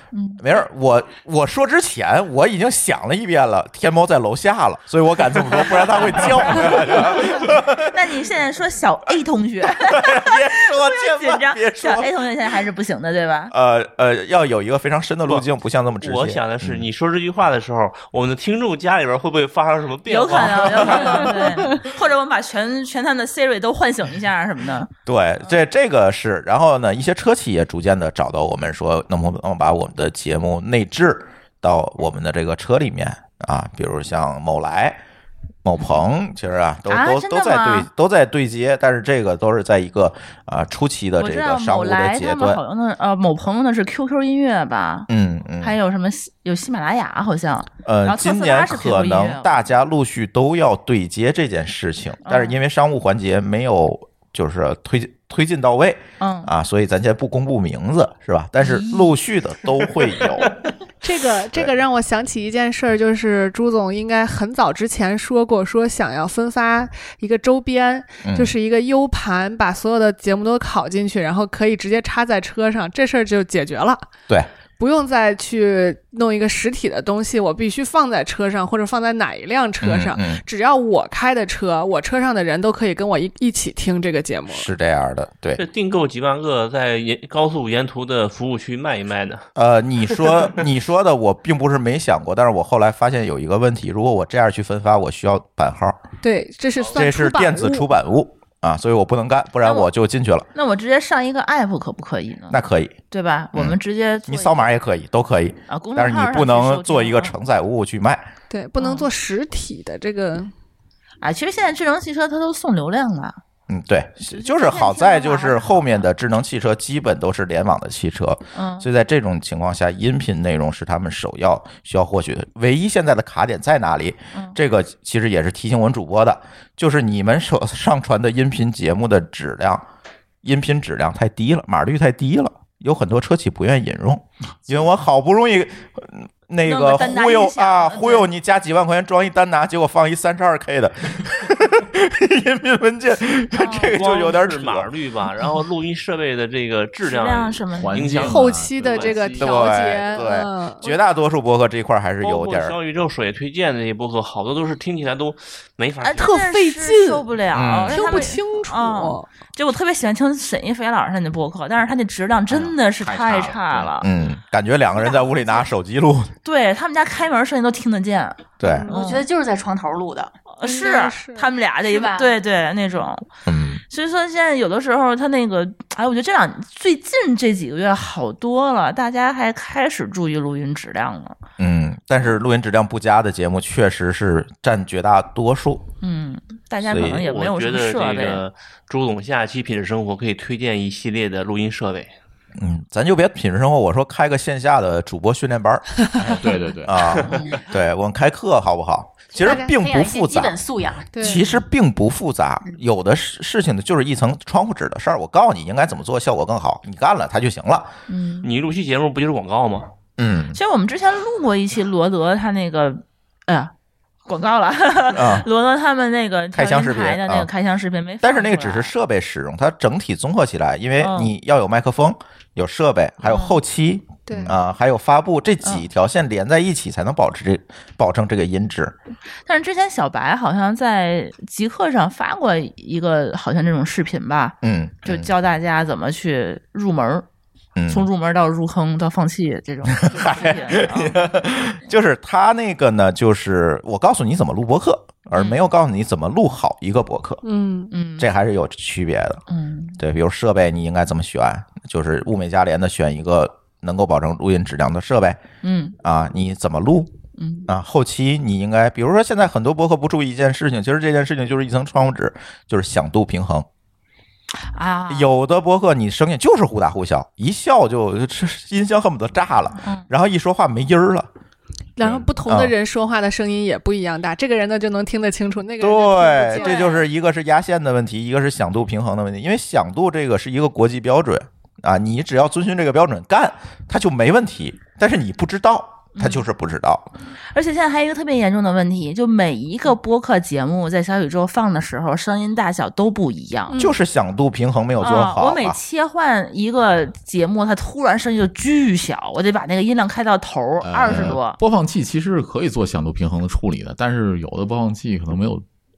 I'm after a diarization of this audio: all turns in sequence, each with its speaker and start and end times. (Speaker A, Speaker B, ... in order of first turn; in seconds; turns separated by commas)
Speaker A: 0.1-0.4, Speaker B: 0.4-8.0, Speaker A: 6.1-13.5, Speaker B: 9.7-12.1, Speaker B: 13.5-16.8, Speaker C: 16.0-21.7, Speaker A: 20.1-24.9, Speaker B: 25.1-35.0, Speaker B: 35.6-42.6, Speaker A: 36.9-37.9, Speaker A: 41.2-45.1, Speaker B: 45.1-45.8, Speaker A: 45.6-49.6, Speaker B: 47.9-60.5, Speaker A: 52.2-52.6, Speaker A: 56.2-56.5, Speaker A: 58.6-59.2, Speaker D: 61.0-74.1, Speaker B: 68.2-68.5, Speaker D: 74.8-84.7, Speaker B: 79.8-80.4, Speaker B: 84.5-85.6, Speaker C: 85.6-89.5, Speaker B: 89.5-96.0, Speaker D: 96.2-97.9, Speaker B: 96.9-100.5, Speaker A: 99.6-99.9, Speaker A: 100.5-104.7, Speaker B: 102.5-103.0, Speaker B: 103.5-108.3, Speaker A: 105.7-107.3, Speaker D: 108.5-110.5, Speaker A: 108.8-109.1, Speaker A: 111.2-113.4, Speaker B: 113.7-129.8, Speaker A: 114.3-116.1, Speaker A: 118.5-118.9, Speaker B: 130.4-144.9, Speaker A: 136.6-138.3, Speaker A: 143.5-144.0, Speaker C: 143.9-149.5, Speaker A: 147.0-148.0, Speaker E: 147.8-149.5, Speaker D: 148.1-151.0, Speaker B: 149.4-152.8, Speaker C: 152.2-156.3, Speaker A: 156.0-164.1, Speaker D: 156.2-157.3, Speaker B: 157.5-158.3, Speaker D: 157.9-159.3, Speaker E: 162.5-164.0, Speaker B: 164.0-166.3, Speaker A: 165.0-165.7, Speaker A: 166.4-169.3, Speaker B: 168.6-168.9, Speaker D: 168.6-169.1, Speaker F: 168.9-170.4, Speaker A: 170.5-173.3, Speaker D: 170.6-171.5, Speaker F: 171.8-172.3, Speaker B: 173.5-173.8, Speaker A: 173.9-181.4, Speaker B: 181.6-185.9, Speaker A: 186.0-188.4, Speaker B: 186.8-187.2, Speaker C: 187.2-192.1, Speaker B: 192.6-195.9, Speaker E: 196.2-197.5, Speaker B: 196.8-200.6, Speaker F: 199.3-201.3, Speaker D: 199.4-199.7, Speaker D: 201.1-201.4, Speaker B: 201.2-207.9, Speaker A: 208.1-208.5, Speaker C: 208.4-209.9, Speaker B: 210.2-210.6, Speaker A: 210.5-213.7, Speaker A: 214.3-218.9, Speaker B: 215.1-215.5, Speaker B: 216.5-217.5, Speaker B: 218.2-228.9, Speaker A: 221.0-221.3, Speaker A: 223.2-223.6, Speaker D: 224.3-224.6, Speaker A: 229.5-237.3, Speaker B: 234.6-235.3, Speaker B: 237.8-238.1, Speaker A: 237.9-241.2, Speaker B: 239.9-247.4, Speaker A: 245.3-245.6, Speaker D: 247.4-247.9, Speaker A: 247.9-248.3, Speaker B: 248.2-249.4, Speaker A: 249.5-250.0, Speaker B: 250.0-255.4, Speaker A: 255.6-256.0, Speaker B: 256.0-257.2, Speaker A: 257.4-257.7, Speaker B: 257.7-263.7, Speaker A: 264.7-265.3, Speaker B: 265.1-271.3, Speaker A: 269.8-270.1, Speaker D: 272.0-276.9, Speaker B: 272.0-272.7, Speaker B: 275.8-287.1, Speaker A: 276.5-277.1, Speaker A: 286.2-286.5, Speaker A: 287.5-293.9, Speaker B: 293.8-295.8, Speaker A: 295.0-301.6, Speaker E: 300.8-305.6, Speaker B: 301.1-301.4